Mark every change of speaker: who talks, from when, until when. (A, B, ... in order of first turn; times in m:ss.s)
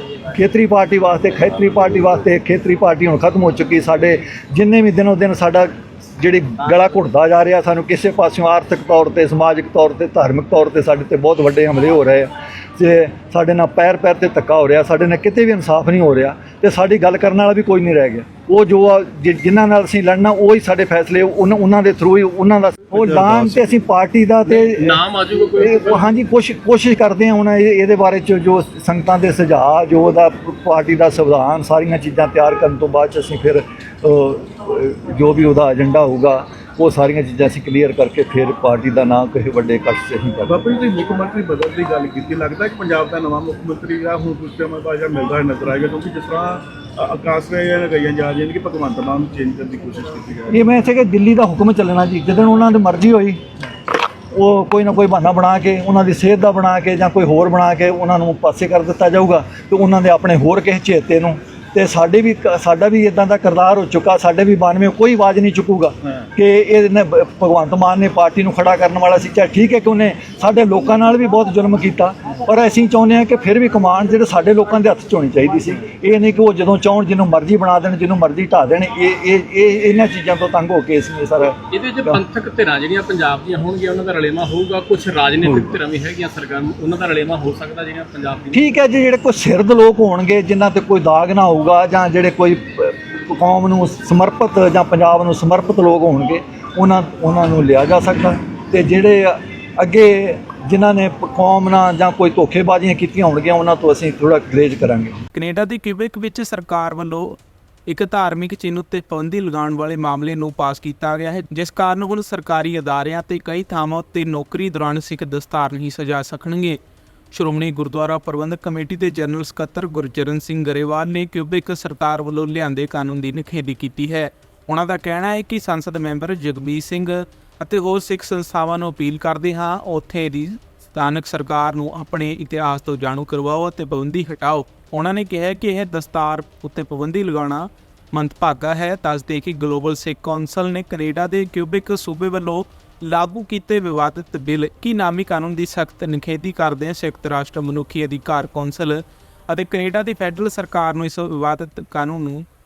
0:00.3-0:40.6 A
0:22.9-0:23.8 B
0:24.4-0:26.1 C
0:40.4-0:50.7 B
0:50.5-0:53.4 A
0:54.3-1:22.2 A
1:21.7-1:28.6 C
1:28.5-1:45.2 A
1:45.3-1:56.8 D
1:57.3-2:32.4 D